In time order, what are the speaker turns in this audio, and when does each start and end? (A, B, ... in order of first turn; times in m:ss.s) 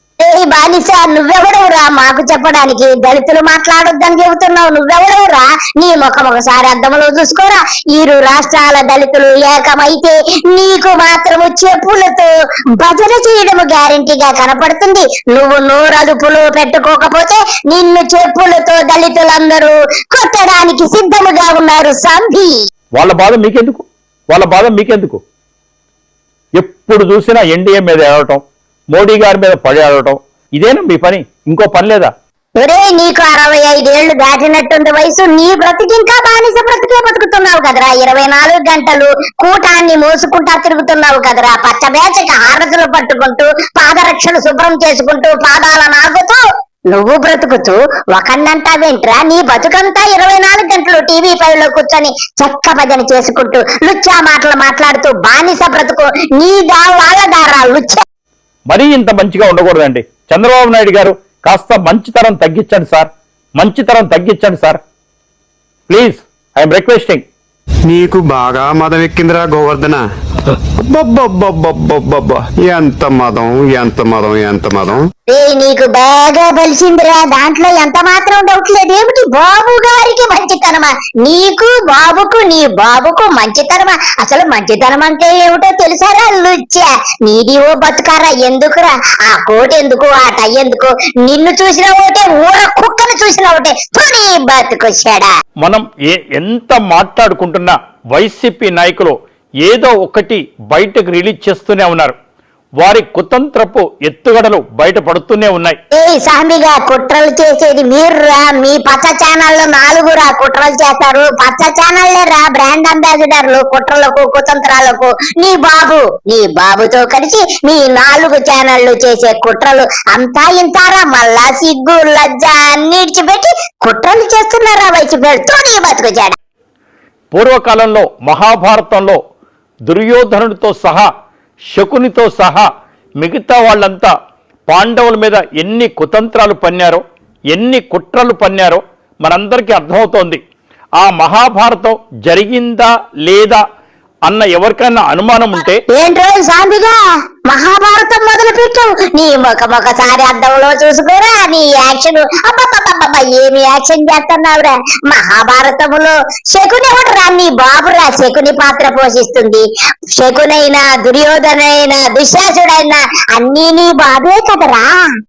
0:00.2-0:22.6 A
0:23.0-0:25.2 B
0:26.6-0:28.4 B
0:28.9-0:32.1 B
0:32.6-0:58.0 A
0:58.7-1:04.8 B
1:05.9-1:07.2 B
1:07.9-1:15.1 C
1:15.3-1:35.3 A
1:35.6-1:42.2 B
1:42.8-1:45.8 B
1:45.9-2:06.4 A
2:07.3-2:09.2 B
2:09.9-2:11.1 B
2:11.7-2:12.7 B
2:13.2-2:14.1 B
2:14.7-2:20.4 B
2:21.0-2:23.6 B
2:24.3-2:25.8 B
2:25.9-2:45.1 A